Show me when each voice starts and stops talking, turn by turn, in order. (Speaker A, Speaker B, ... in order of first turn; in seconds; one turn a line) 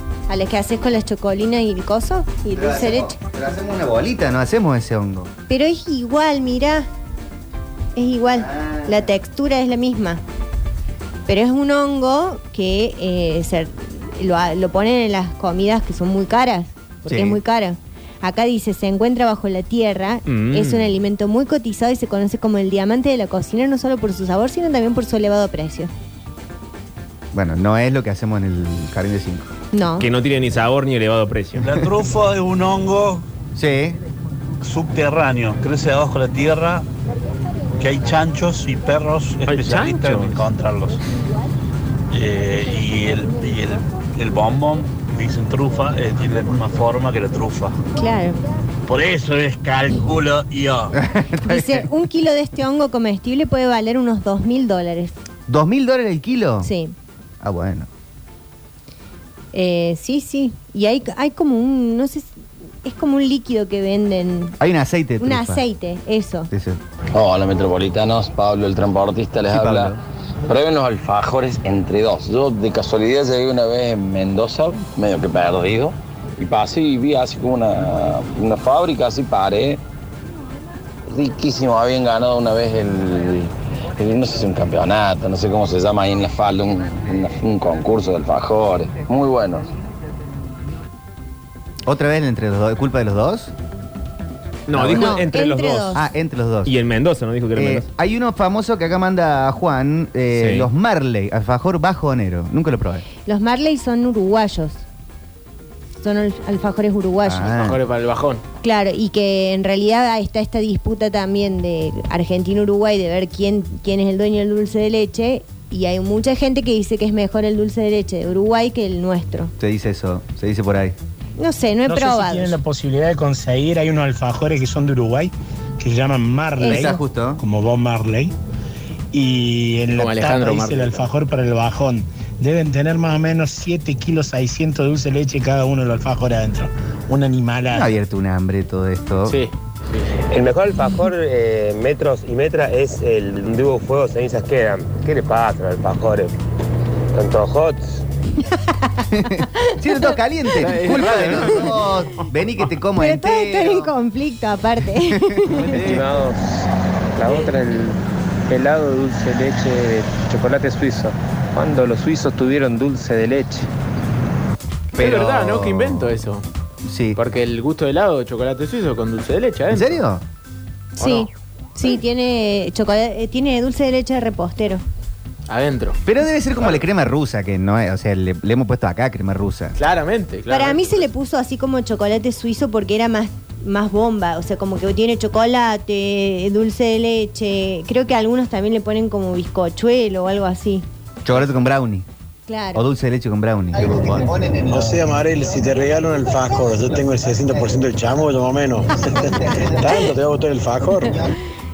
Speaker A: 0.3-3.1
Speaker B: 2.5-5.3
Speaker A: 5.5-6.9
Speaker A: 7.9-10.2
Speaker B: 8.3-9.1
Speaker A: 11.3-25.9
Speaker B: 17.1-17.4
Speaker C: 20.3-20.9
Speaker B: 27.3-29.5
Speaker A: 29.7-30.1
Speaker C: 30.0-31.7
Speaker D: 31.6-33.2
Speaker B: 33.5-34.0
Speaker D: 34.6-36.8
Speaker D: 37.8-41.0
Speaker C: 39.5-40.4
Speaker D: 42.1-47.8
Speaker A: 48.0-48.4
Speaker D: 48.9-50.9
Speaker B: 50.9-51.9
Speaker A: 51.5-55.1
Speaker B: 55.5-56.7
Speaker A: 56.6-56.9
Speaker B: 57.4-57.9
Speaker A: 59.5-64.5
Speaker B: 64.6-65.6
Speaker A: 65.2-66.5
Speaker B: 66.5-66.8
Speaker E: 67.1-70.0
Speaker B: 69.5-70.0
Speaker E: 70.5-79.8
Speaker E: 81.1-89.7
Speaker B: 91.8-93.5
Speaker C: 94.7-96.0
Speaker B: 94.7-95.2
Speaker A: 94.9-96.0
Speaker B: 95.9-96.7
Speaker C: 96.7-97.8
Speaker B: 97.5-103.0
Speaker C: 100.3-100.7
Speaker A: 103.2-104.8
Speaker A: 106.0-107.6
Speaker B: 107.2-107.8
Speaker F: 107.5-108.4
Speaker A: 108.6-119.5
Speaker B: 119.6-121.0
Speaker A: 121.4-122.5
Speaker G: 121.9-128.3
Speaker A: 126.6-127.0
Speaker B: 126.7-127.4
Speaker G: 129.1-137.9
Speaker F: 129.9-131.1
Speaker B: 137.7-139.4
Speaker F: 139.2-140.2
Speaker H: 140.3-146.3
Speaker H: 147.1-148.0
Speaker A: 148.5-149.0
Speaker B: 149.1-153.9
Speaker A: 149.5-150.1
Speaker F: 150.6-151.5
Speaker A: 153.0-155.9
Speaker B: 155.1-156.1
Speaker I: 155.8-156.4
Speaker I: 157.2-163.7
Speaker F: 164.9-166.4
Speaker B: 164.9-166.2
Speaker B: 166.8-167.2
Speaker F: 167.2-170.0
Speaker B: 169.7-170.2
Speaker A: 171.0-174.8
Speaker F: 171.0-171.3
Speaker F: 175.5-176.0
Speaker B: 176.0-179.8
Speaker F: 179.8-181.0
Speaker A: 180.5-190.8
Speaker B: 191.2-192.1
Speaker A: 192.5-192.8
Speaker B: 192.7-194.6
Speaker J: 194.7-201.3